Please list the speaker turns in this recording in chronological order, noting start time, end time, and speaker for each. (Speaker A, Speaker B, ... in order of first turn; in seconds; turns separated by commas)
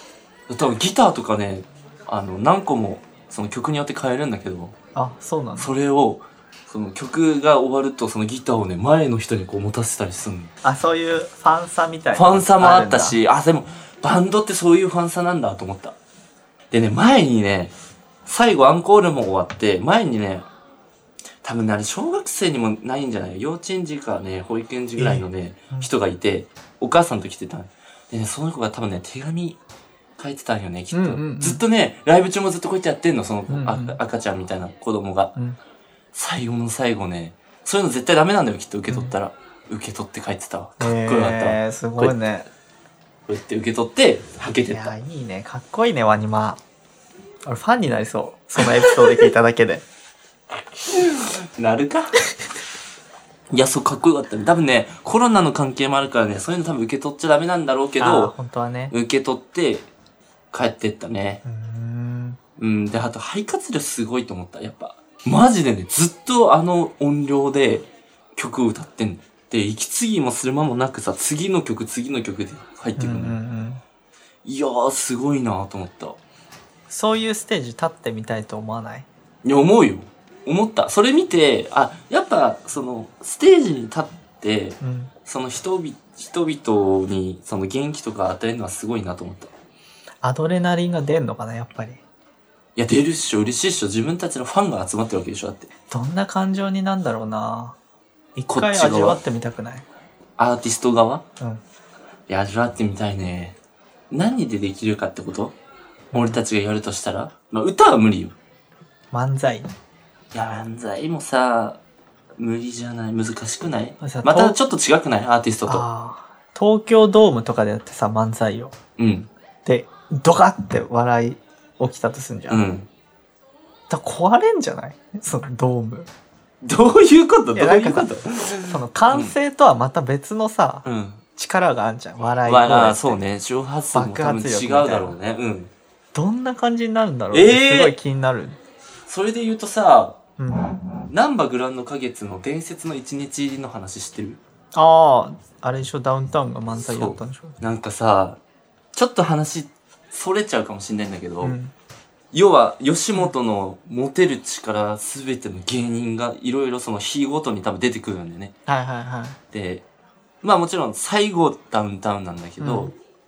Speaker A: 0.5-4.8, Speaker B: 5.0-5.7, Speaker A: 5.6-10.5, Speaker B: 10.6-13.2, Speaker A: 12.1-16.0, Speaker A: 16.7-17.7, Speaker A: 18.3-20.5, Speaker A: 21.4-29.6, Speaker B: 25.0-25.9, Speaker A: 30.2-35.3, Speaker B: 30.9-31.6, Speaker B: 33.5-34.0, Speaker A: 36.1-42.1, Speaker B: 38.9-39.1, Speaker B: 40.8-42.5, Speaker A: 43.3-44.9, Speaker B: 44.7-46.6, Speaker B: 47.5-49.8, Speaker A: 48.6-49.3, Speaker A: 50.8-52.2, Speaker A: 53.5-58.3, Speaker B: 58.0-59.0, Speaker A: 58.9-59.9, Speaker A: 60.5-61.4, Speaker B: 61.5-62.4, Speaker A: 62.6-73.4, Speaker B: 73.0-73.8, Speaker A: 74.5-76.2, Speaker B: 76.9-79.1, Speaker A: 79.4-89.5, Speaker B: 84.8-85.1, Speaker B: 90.2-92.0, Speaker A: 92.8-95.7, Speaker B: 95.9-97.8, Speaker B: 98.4-99.9, Speaker A: 98.5-99.2, Speaker A: 100.4-101.2, Speaker A: 102.3-103.6, Speaker A: 104.1-105.5, Speaker B: 106.1-106.4, Speaker A: 106.1-108.3, Speaker B: 109.1-109.7, Speaker A: 110.3-111.8, Speaker A: 112.4-115.9, Speaker B: 114.0-114.6, Speaker B: 115.7-118.8, Speaker A: 119.0-119.3, Speaker B: 119.7-122.7, Speaker A: 122.5-122.9, Speaker B: 123.9-126.1, Speaker A: 126.6-129.3, Speaker B: 127.5-133.2, Speaker A: 130.8-131.2, Speaker A: 132.4-135.7, Speaker B: 133.9-135.2, Speaker B: 136.1-138.6, Speaker A: 137.3-138.0, Speaker A: 139.1-140.2, Speaker B: 140.4-140.8, Speaker A: 141.1-144.4, Speaker B: 144.7-147.6, Speaker A: 146.7-148.4, Speaker A: 148.9-151.6, Speaker B: 151.4-151.7, Speaker A: 152.3-158.5, Speaker B: 158.7-159.4, Speaker A: 159.5-159.9, Speaker A: 160.4-162.9, Speaker B: 162.6-162.9